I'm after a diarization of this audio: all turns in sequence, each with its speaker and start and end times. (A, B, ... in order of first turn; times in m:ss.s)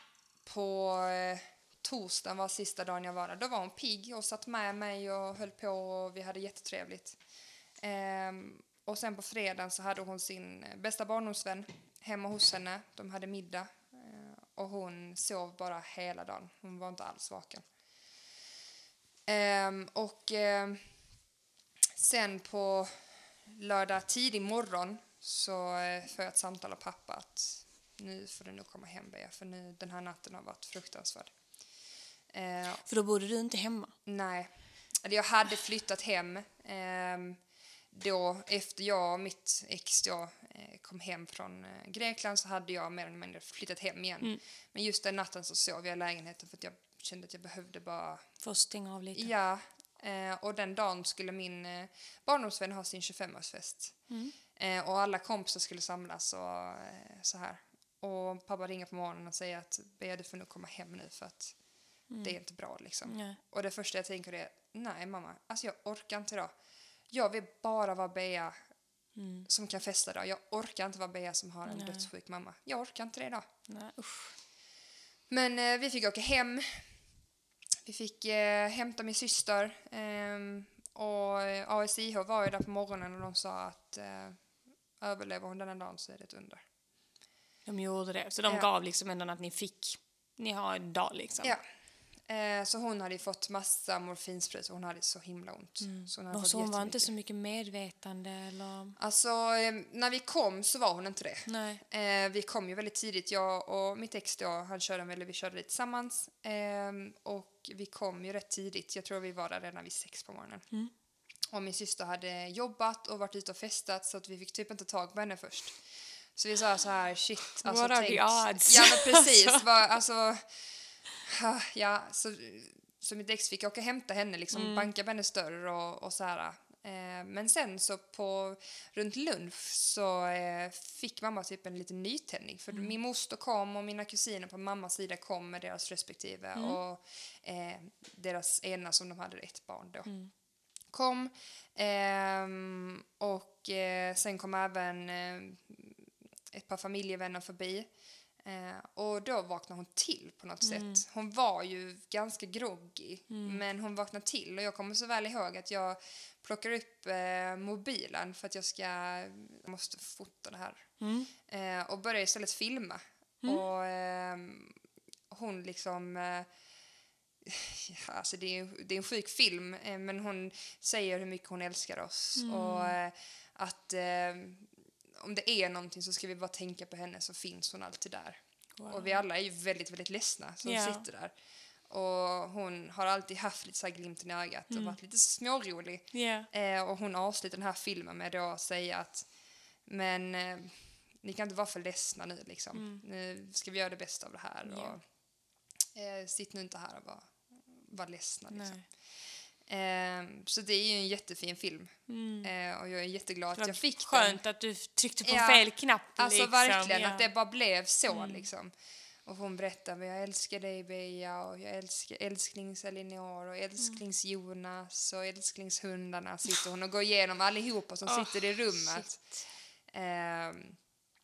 0:00.4-0:07.2 A
0:07.8-0:17.7 A
0:19.3-0:20.9 A
0:22.0-0:31.3 A
0:32.3-0:32.8 A
0:32.8-0:33.9 B
0:34.1-0:37.4 A
0:37.9-0:48.2 A
0:48.4-0:49.3 B
0:49.2-0:54.0 A
0:54.1-0:54.4 B
0:54.6-1:01.6 A
1:02.1-1:02.4 B
1:02.2-1:06.5 A
1:03.1-1:03.4 B
1:07.1-1:08.6 A
1:09.2-1:09.5 B
1:09.5-1:13.4 A
1:11.7-1:12.1 B
1:13.7-1:14.4 B
1:15.3-1:17.0 A
1:17.8-1:24.4 A
1:25.0-1:26.6 A
1:27.7-1:31.6 B
1:32.2-1:37.1 A
1:35.8-1:39.0 B
1:39.0-1:50.7 A
1:41.5-1:41.8 B
1:51.5-1:55.8 A
1:56.4-2:00.7 A
1:57.5-1:59.6 B
2:01.2-2:20.1 A
2:04.5-2:04.9 B
2:20.1-2:20.3 B
2:20.9-2:27.9 A
2:28.4-2:40.9 A
2:30.6-2:31.0 B
2:33.3-2:33.6 B
2:41.0-2:41.3 B
2:41.4-2:44.8 A
2:45.3-2:46.5 A
2:47.4-3:01.3 A
2:52.4-2:53.0 B
2:58.8-2:59.2 B
3:00.6-3:01.0 B
3:01.9-3:09.3 A
3:04.7-3:05.0 B
3:06.1-3:06.5 B
3:09.9-3:15.0 A
3:12.7-3:13.0 B
3:14.6-3:15.0 B
3:16.0-3:18.8 A
3:18.5-3:18.8 B
3:19.6-3:24.4 A
3:22.1-3:22.5 B
3:23.6-3:27.3 B
3:25.2-3:28.7 A
3:28.1-3:28.5 B
3:29.3-3:39.2 A
3:38.0-3:39.5 B
3:39.9-3:40.8 A